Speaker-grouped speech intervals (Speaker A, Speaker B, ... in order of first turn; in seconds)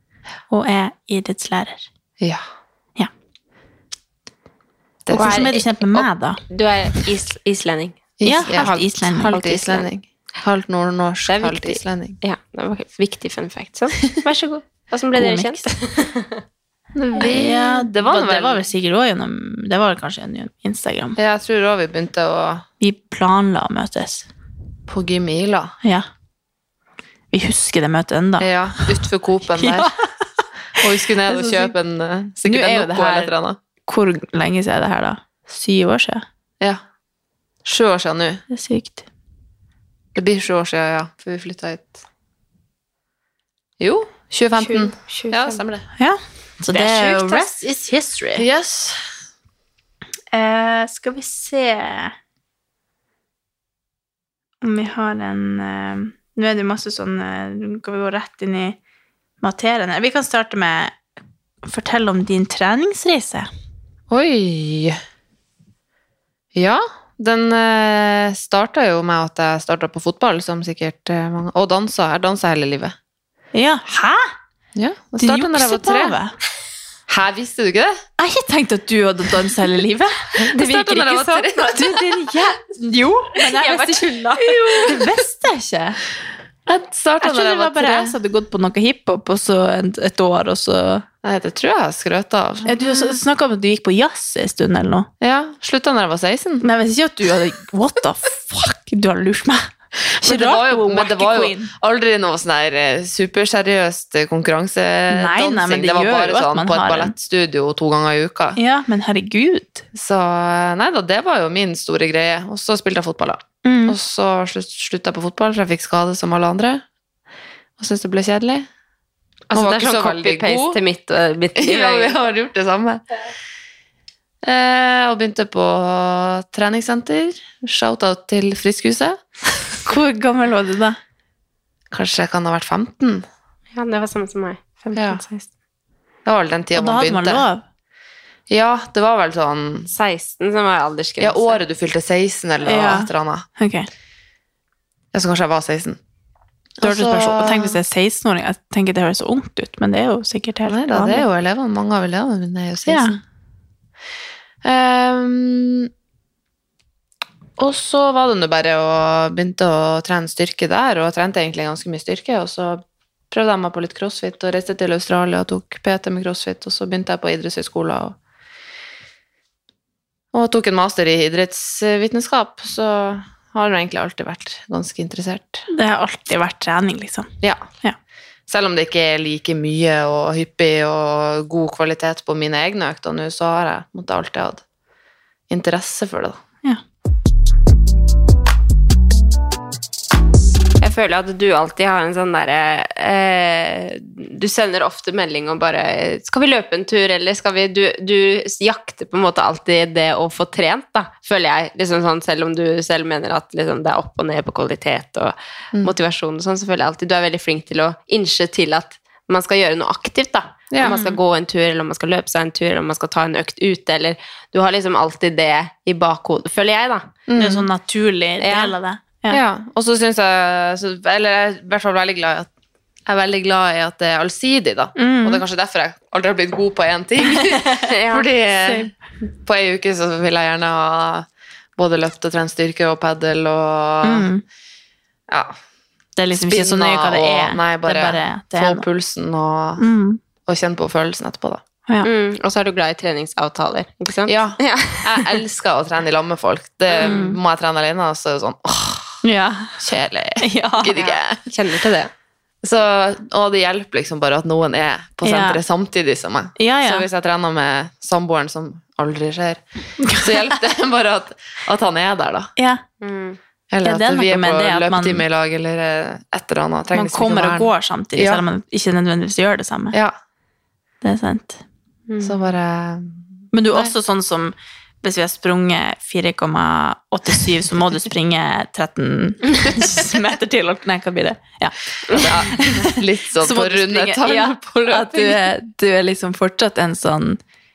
Speaker A: 0.5-1.9, 5.1-6.4, 8.2-9.4, 15.2-15.7, 17.1-21.2, 22.8-24.3, 27.3-29.0, 29.5-29.9, 30.8-31.7, 32.4-33.3, 33.9-36.2, 38.5-39.0, 46.0-48.4, 50.3-52.1, 54.6-58.8, 59.4-61.0, 61.6-63.5, 73.5-74.3, 75.2-76.3, 78.2-80.1, 81.7-86.0, 87.2-91.0, 92.7-95.1, 96.6-101.7, 105.1-107.1, 108.5-109.8, 113.6-114.0, 129.8-131.0, 136.7-137.6, 142.6-143.9, 146.8-151.2, 152.9-153.2, 175.7-177.3, 210.8-211.2, 217.4-219.4, 224.9-225.4, 227.2-227.7, 228.6-228.9, 234.0-234.4, 236.2-238.8, 239.8-240.2, 247.0-247.4, 249.2-249.8, 250.4-250.9, 255.2-255.6, 256.6-257.1, 260.0-260.6, 262.6-262.8, 263.8-265.2, 266.9-270.0, 271.0-271.6, 273.5-287.4
Speaker B: 5.0-5.5, 8.2-12.2, 17.0-18.6, 21.2-22.6, 24.9-25.7, 28.4-29.9, 30.8-33.6, 37.6-38.4, 40.1-42.0, 43.8-45.8, 48.4-49.0, 64.1-65.0, 66.5-72.9, 74.7-76.2, 77.1-78.0, 80.5-82.0, 84.5-85.0, 86.7-88.1, 91.2-93.2, 95.2-96.7, 100.2-108.6, 109.9-116.8, 117.8-118.7, 119.5-120.8, 121.6-123.0, 124.4-129.2, 131.9-133.2, 134.9-135.2, 136.2-137.4, 138.5-139.9, 141.2-143.4, 145.1-146.0, 146.8-147.8, 150.7-153.2, 154.6-155.9, 157.6-168.1, 170.3-175.7, 178.5-184.6, 185.5-186.4, 210.7-211.0, 217.3-217.7, 219.3-222.5, 223.1-231.3, 231.8-234.3, 235.3-235.6, 236.3-239.8, 240.4-241.6, 244.3-249.2, 249.8-251.5, 252.6-262.5, 263.7-268.4, 272.2-273.9, 282.1-285.4
Speaker C: 5.1-9.8, 11.3-16.4, 44.6-45.6, 46.7-47.5, 80.4-81.8, 83.4-84.9, 119.5-122.2, 133.7-135.5, 139.9-141.6, 190.8-217.1, 218.4-218.7, 227.8-228.2, 242.0-245.4, 246.9-247.2, 250.9-252.1, 263.0-263.4, 272.1-272.5